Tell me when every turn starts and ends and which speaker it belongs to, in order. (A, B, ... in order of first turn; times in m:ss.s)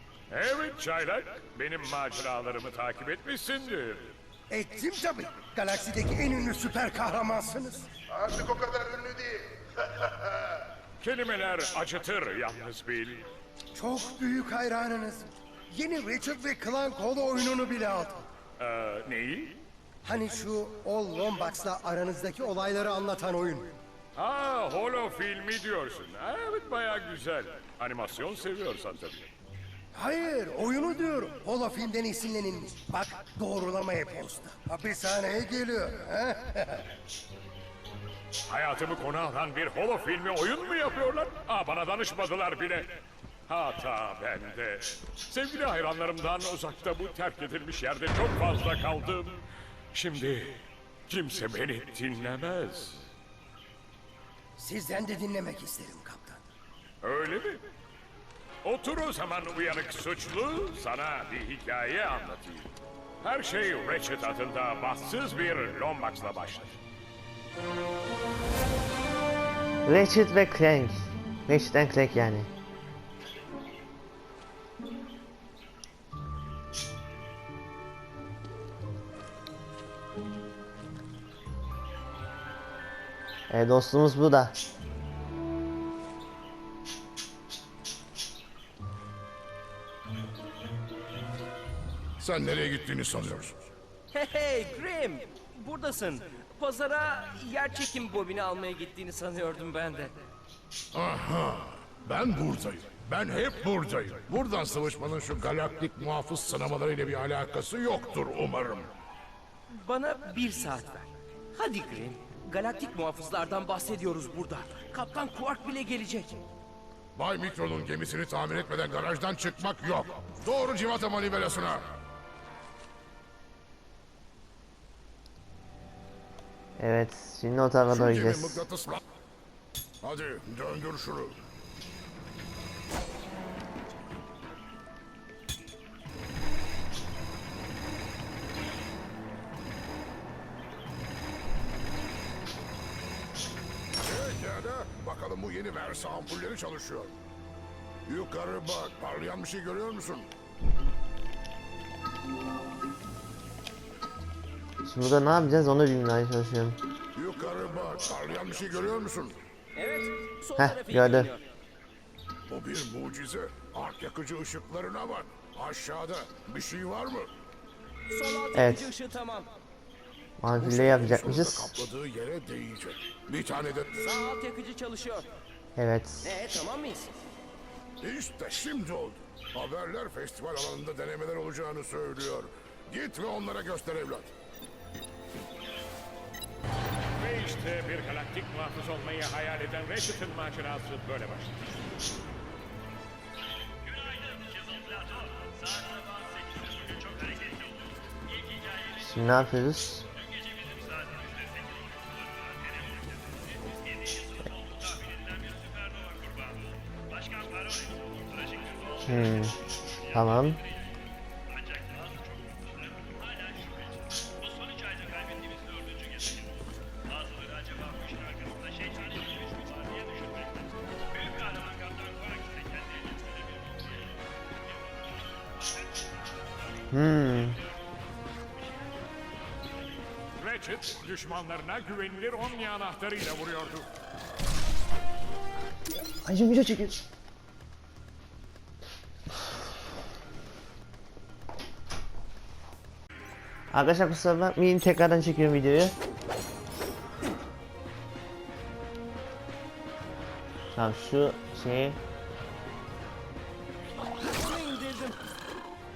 0:00.3-0:04.2 A
0:04.5-0:07.9 B
0:11.0-0:13.3 A
0:13.8-0:18.3 B
0:18.6-0:19.6 A
0:20.0-0:23.8 B
0:24.2-0:29.3 A
0:29.9-0:36.9 B
0:38.5-0:43.0 A
0:43.5-0:49.4 A
0:49.9-0:53.1 A
0:54.6-0:56.5 B
0:57.0-0:57.6 A
0:58.6-1:06.8 A
1:09.9-1:12.5 C
1:23.5-1:24.6 C
1:32.2-1:33.5 D
1:34.1-1:40.2 E
1:40.9-1:48.9 D
1:49.8-1:56.4 E
1:57.2-2:01.8 D
2:06.8-2:08.6 C
2:08.0-2:09.0 D
2:10.0-2:11.3 D
2:24.0-2:27.1 D
2:28.1-2:30.3 D
2:34.8-2:36.8 C
2:37.2-2:39.4 D
2:39.8-2:41.4 E
2:40.6-2:41.3 C
2:42.5-2:47.3 D
2:48.1-2:49.5 E
2:48.5-2:48.9 C
2:50.4-2:51.7 C
2:50.9-2:53.9 D
2:54.0-2:55.3 E
2:55.8-2:56.4 C
2:56.2-2:57.1 E
2:58.0-3:04.3 D
3:07.2-3:11.7 A
3:19.0-3:20.1 C
3:29.0-3:29.6 C
3:30.1-3:30.6 C
3:46.9-3:47.6 C
3:50.4-3:53.9 A
3:56.2-3:57.0 C
4:03.7-4:05.9 C
4:10.8-4:12.0 C
4:14.3-4:15.2 E